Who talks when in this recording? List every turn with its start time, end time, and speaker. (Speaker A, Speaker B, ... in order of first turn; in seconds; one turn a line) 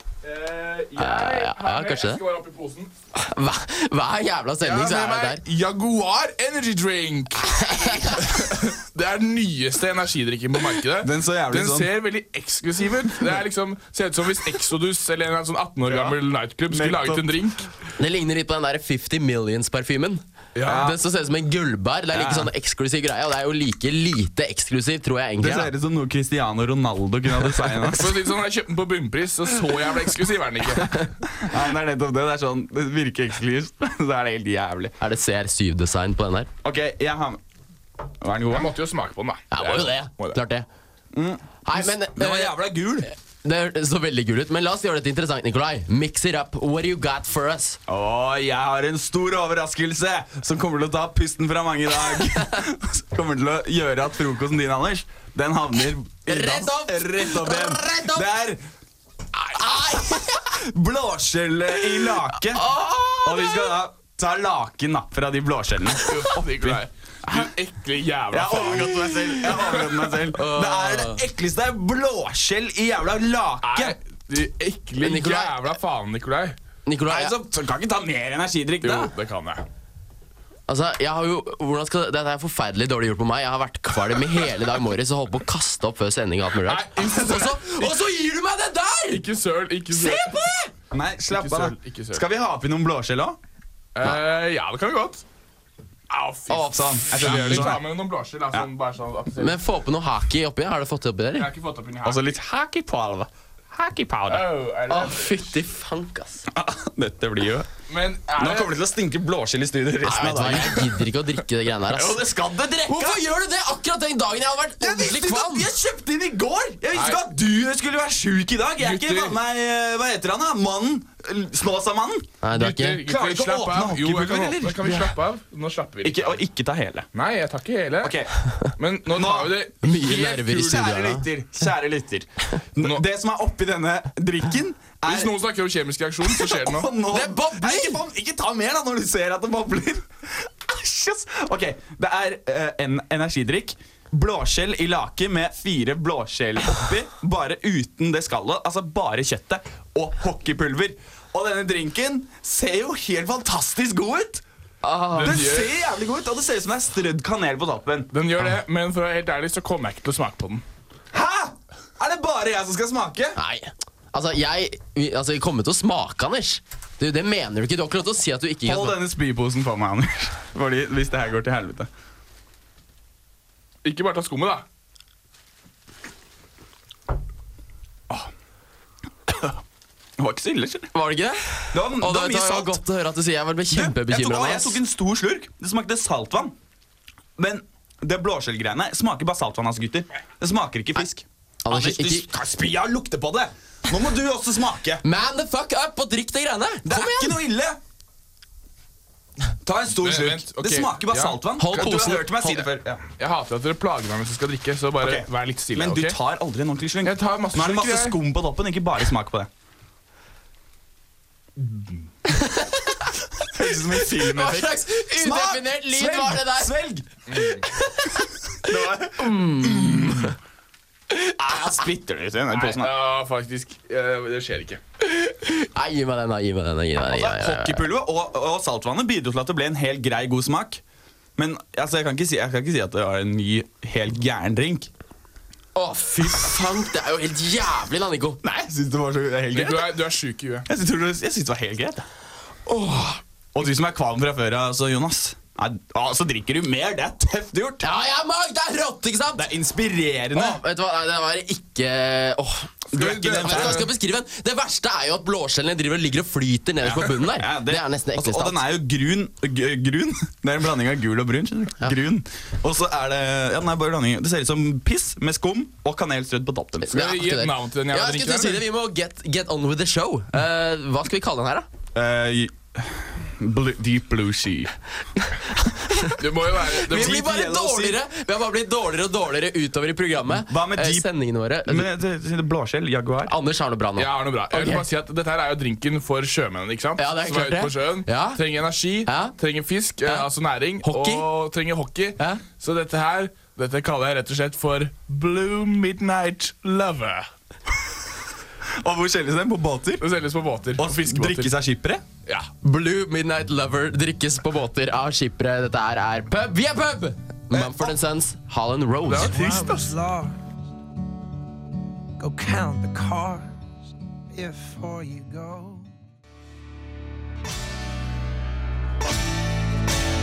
Speaker A: 0.2-2.9
Speaker B: 1.0-2.2
Speaker B: 3.1-5.4
Speaker A: 4.6-17.7
Speaker B: 7.5-8.3
Speaker C: 11.0-11.9
Speaker C: 15.8-16.2
Speaker C: 16.7-17.3
Speaker B: 18.0-25.7
Speaker A: 20.6-20.9
Speaker C: 20.6-21.0
Speaker C: 22.1-22.5
Speaker C: 25.4-28.3
Speaker A: 27.8-31.0
Speaker C: 31.4-34.9
Speaker B: 35.0-36.5
Speaker C: 36.6-37.4
Speaker C: 38.2-38.7
Speaker A: 38.5-40.4
Speaker B: 39.5-40.7
Speaker C: 41.1-43.1
Speaker B: 41.6-47.8
Speaker C: 47.9-58.6
Speaker B: 56.3-58.3
Speaker B: 59.5-60.5
Speaker C: 60.4-62.7
Speaker B: 61.8-63.8
Speaker C: 63.2-67.5
Speaker A: 66.0-70.0
Speaker C: 68.3-74.0
Speaker B: 70.3-71.2
Speaker A: 73.6-76.6
Speaker B: 75.0-75.7
Speaker B: 76.9-77.4
Speaker C: 77.1-79.1
Speaker A: 78.8-79.7
Speaker B: 80.7-89.2
Speaker A: 86.6-88.0
Speaker A: 89.1-90.5
Speaker B: 89.9-90.7
Speaker C: 90.9-93.4
Speaker A: 91.3-92.2
Speaker A: 94.0-95.2
Speaker A: 96.1-99.6
Speaker B: 96.5-97.7
Speaker C: 96.6-97.8
Speaker B: 99.4-101.5
Speaker A: 101.4-102.2
Speaker C: 102.0-104.5
Speaker A: 104.3-105.5
Speaker B: 104.9-106.5
Speaker C: 106.5-107.7
Speaker A: 107.9-108.7
Speaker C: 108.4-110.9
Speaker B: 110.0-112.2
Speaker C: 111.9-113.2
Speaker B: 112.8-115.7
Speaker C: 114.8-122.3
Speaker A: 116.9-117.2
Speaker A: 118.8-119.4
Speaker B: 122.4-123.0
Speaker A: 122.5-126.4
Speaker C: 123.0-125.1
Speaker C: 126.0-127.1
Speaker A: 127.1-128.2
Speaker C: 128.0-128.3
Speaker A: 128.8-130.9
Speaker C: 129.1-129.6
Speaker B: 129.8-131.2
Speaker C: 130.4-135.4
Speaker A: 135.1-136.9
Speaker C: 136.2-154.4
Speaker B: 137.1-138.0
Speaker B: 154.8-155.4
Speaker A: 155.2-155.7
Speaker C: 155.2-158.1
Speaker A: 158.1-160.6
Speaker C: 161.1-163.4
Speaker B: 163.4-169.0
Speaker C: 168.6-171.9
Speaker A: 173.8-174.6
Speaker C: 179.3-179.6
Speaker C: 180.2-180.9
Speaker B: 180.9-184.8
Speaker C: 181.7-182.8
Speaker C: 183.7-186.5
Speaker C: 187.4-195.0
Speaker B: 191.7-192.3
Speaker B: 195.0-197.4
Speaker C: 196.8-197.8
Speaker C: 199.6-203.0
Speaker A: 200.0-201.9
Speaker B: 201.6-202.7
Speaker A: 203.2-206.2
Speaker C: 205.0-209.5
Speaker A: 207.0-208.2
Speaker B: 212.3-213.1
Speaker C: 213.5-217.3
Speaker B: 214.0-216.7
Speaker A: 217.3-217.6
Speaker B: 217.6-218.3
Speaker C: 218.6-220.3
Speaker B: 219.2-220.3
Speaker C: 221.4-222.9
Speaker A: 222.5-224.8
Speaker B: 225.0-227.9
Speaker C: 227.0-230.8
Speaker C: 231.4-234.9
Speaker B: 235.8-238.4
Speaker C: 238.4-240.0
Speaker A: 239.5-240.7
Speaker C: 240.7-242.1
Speaker B: 242.7-243.2
Speaker C: 243.6-247.9
Speaker B: 247.8-249.5
Speaker C: 249.4-250.6
Speaker B: 250.3-252.8
Speaker A: 252.9-253.9
Speaker C: 252.9-253.9
Speaker B: 253.3-258.6
Speaker C: 256.9-266.9
Speaker B: 266.8-271.7
Speaker A: 266.9-268.6
Speaker C: 271.9-274.7
Speaker B: 275.9-276.2
Speaker A: 276.1-277.2
Speaker B: 276.8-281.9
Speaker C: 276.9-278.0
Speaker C: 280.3-281.1
Speaker C: 281.7-283.3
Speaker B: 283.3-284.9
Speaker A: 284.0-297.3
Speaker B: 287.0-288.4
Speaker B: 289.1-289.3
Speaker B: 290.8-291.3
Speaker C: 298.8-300.1
Speaker A: 300.0-301.5
Speaker C: 300.8-302.0
Speaker B: 302.6-309.3
Speaker C: 307.5-308.0
Speaker A: 309.1-309.9
Speaker D: 309.2-310.4
Speaker D: 312.2-313.5
Speaker D: 314.3-315.9